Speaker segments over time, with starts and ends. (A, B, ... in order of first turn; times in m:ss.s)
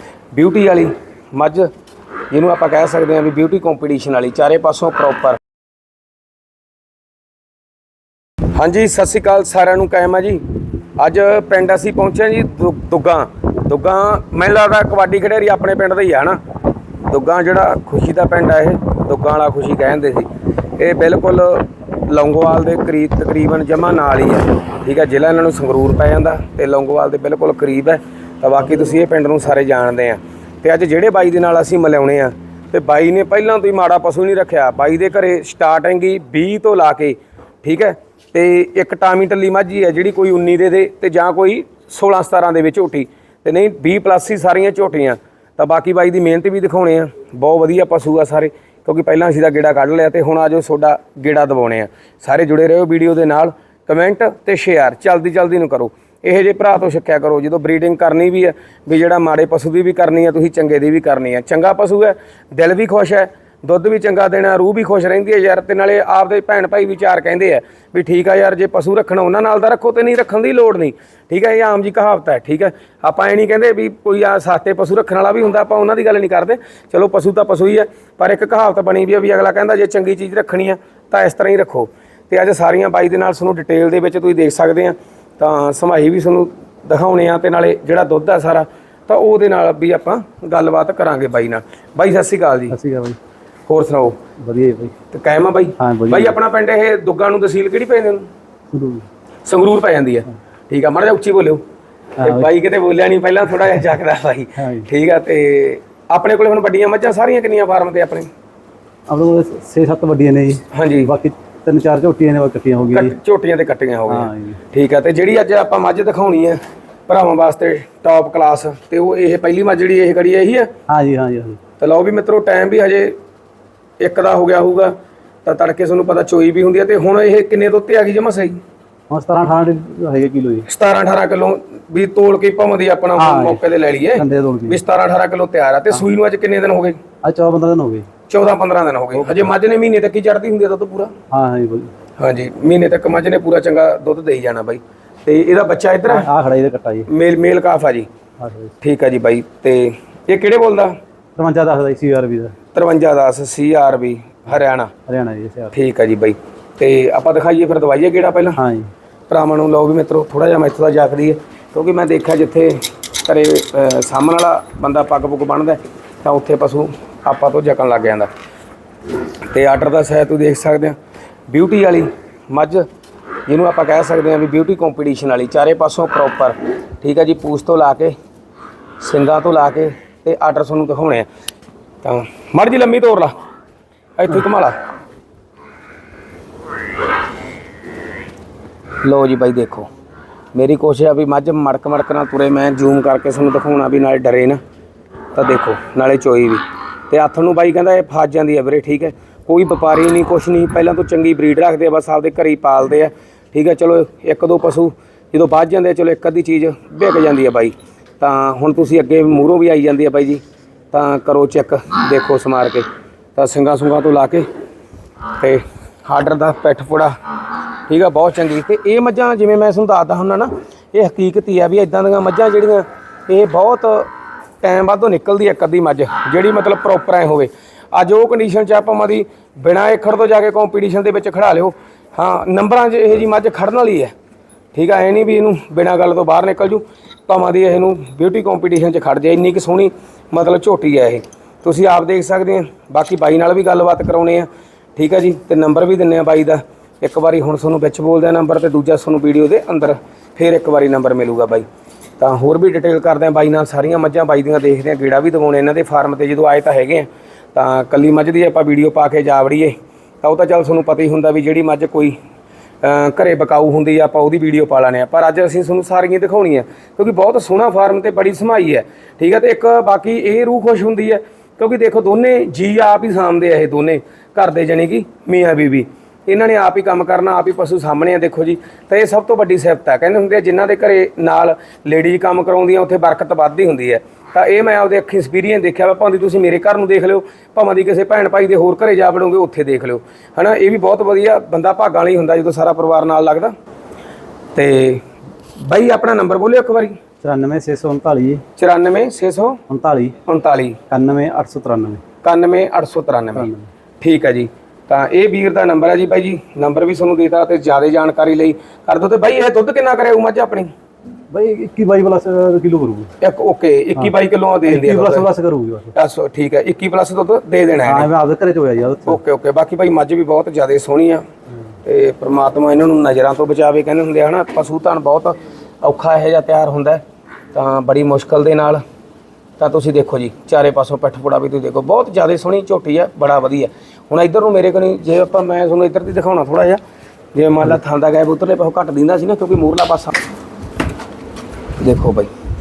0:00.3-0:01.7 A
0:02.3-0:05.4 A
0:08.5-0:10.4 A
0:11.0-0:16.4 A
0:17.1-1:32.8 A
1:32.7-1:33.2 B
1:33.7-1:34.2 A
1:34.4-1:34.9 B
1:35.1-1:38.3 A
1:35.8-1:36.4 B
1:38.7-1:39.0 B
1:39.4-1:41.6 A
1:42.2-1:42.5 B
1:42.2-1:48.3 A
1:44.6-1:44.9 B
1:49.1-1:53.1 B
1:50.7-1:51.1 A
1:52.9-2:00.7 A
1:54.1-1:54.6 B
2:00.9-2:01.6 B
2:01.8-2:03.2 A
2:04.0-2:08.6 A
2:09.1-2:10.7 B
2:10.7-2:17.0 A
2:13.2-2:13.6 B
2:14.2-2:14.8 B
2:17.2-2:18.1 B
2:18.3-2:21.1 A
2:19.2-2:19.4 B
2:21.3-2:21.9 B
2:22.2-2:26.3 A
2:26.1-2:27.1 B
2:27.1-2:28.1 A
2:28.4-2:28.7 B
2:28.8-2:31.0 A
2:31.4-2:32.5 B
2:32.7-2:34.9 A
2:35.1-2:35.7 B
2:35.7-2:38.6 A
2:38.6-2:38.9 B
2:39.3-2:48.3 A
2:49.5-2:51.0 A
2:51.5-2:52.8 A
2:53.5-2:58.1 A
2:59.0-3:01.3 A
3:02.0-3:03.3 A
3:04.2-3:04.7 A
3:09.0-3:09.9 A
3:10.5-3:14.6 A
3:15.3-3:30.4 A
3:30.9-3:34.5 A
3:35.4-3:37.2 A
3:37.9-3:44.1 A
3:44.6-3:54.1 A
3:54.7-4:11.6 A
4:12.2-4:22.1 A
4:22.8-4:53.5 A
4:54.5-4:55.0 A
4:55.6-4:56.9 A
4:57.2-4:58.4 B
4:58.6-4:59.6 A
4:59.7-5:00.2 B
5:00.2-5:00.8 A
5:00.9-5:02.0 B
5:02.2-5:03.5 A
5:03.3-5:03.7 B
5:04.0-5:10.7 A
5:11.3-5:13.1 B
5:13.2-5:15.3 A
5:14.6-5:15.9 B
5:15.9-5:18.1 A
5:17.8-5:19.2 B
5:19.1-5:21.2 A
5:21.8-5:28.8 A
5:29.6-5:36.8 A
5:37.3-5:40.1 A
5:41.8-5:42.3 A